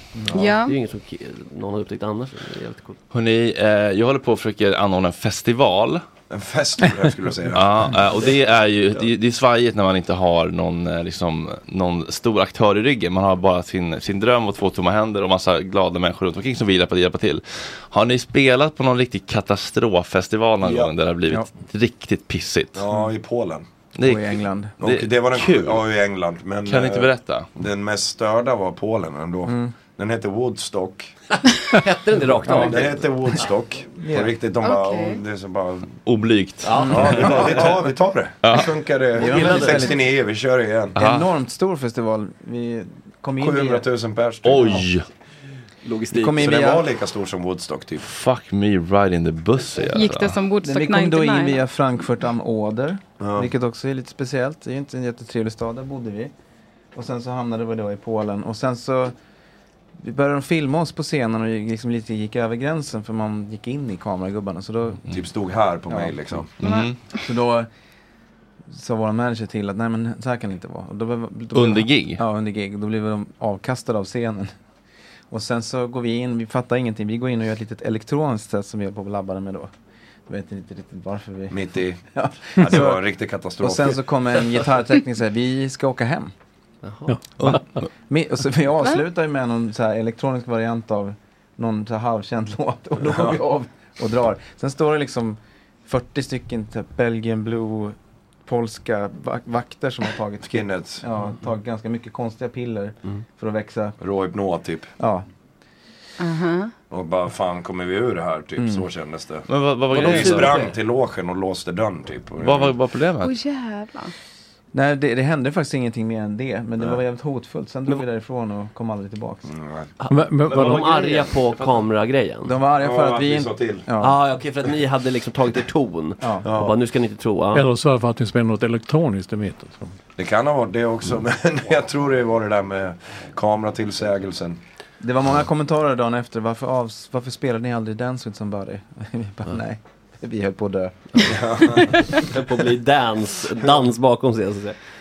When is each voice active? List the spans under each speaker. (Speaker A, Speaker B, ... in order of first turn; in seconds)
Speaker A: 0.3-3.0, 8.2-9.1, 31.5-33.5, 36.6-37.8, 39.1-40.0, 45.8-46.7, 86.8-87.2, 109.9-110.8, 120.0-122.6, 124.0-127.7, 141.2-144.8
Speaker B: 0.3-0.8, 34.6-35.2, 49.9-51.6, 66.6-66.9, 106.2-106.7, 113.2-114.1
Speaker C: 3.1-6.0, 7.5-22.8, 24.0-25.8, 26.7-27.5, 36.0-37.2, 38.4-38.7, 41.0-41.3, 44.4-45.1, 48.0-50.4, 66.6-67.0, 71.5-72.2, 109.5-110.6, 112.4-113.3
Speaker D: 6.3-8.0, 20.6-20.9, 22.8-23.7, 24.8-31.1, 32.5-36.0, 36.9-41.0, 43.4-44.8, 46.4-48.1, 53.2-53.5, 65.1-66.5, 81.5-82.1, 82.6-84.1, 93.1-93.4, 100.4-101.1, 104.0-104.9, 106.9-112.8, 119.5-119.9, 122.8-123.9, 126.4-126.7, 130.2-134.6, 141.2-141.9
Speaker E: 24.0-24.8, 29.5-29.8, 32.4-33.4, 34.0-34.4, 36.8-37.9, 39.1-40.0, 41.0-43.9, 46.1-46.9, 50.6-56.3, 56.9-59.1, 60.0-65.0, 65.9-66.4, 67.2-67.7, 68.7-74.5, 75.3-79.7, 80.3-83.0, 83.6-86.3, 88.1-98.0, 98.5-104.0, 105.0-105.3, 108.6-108.9, 114.7-119.5, 122.4-124.2, 126.2-126.5, 135.0-141.0
Speaker F: 87.1-87.8, 120.1-121.3, 127.5-129.9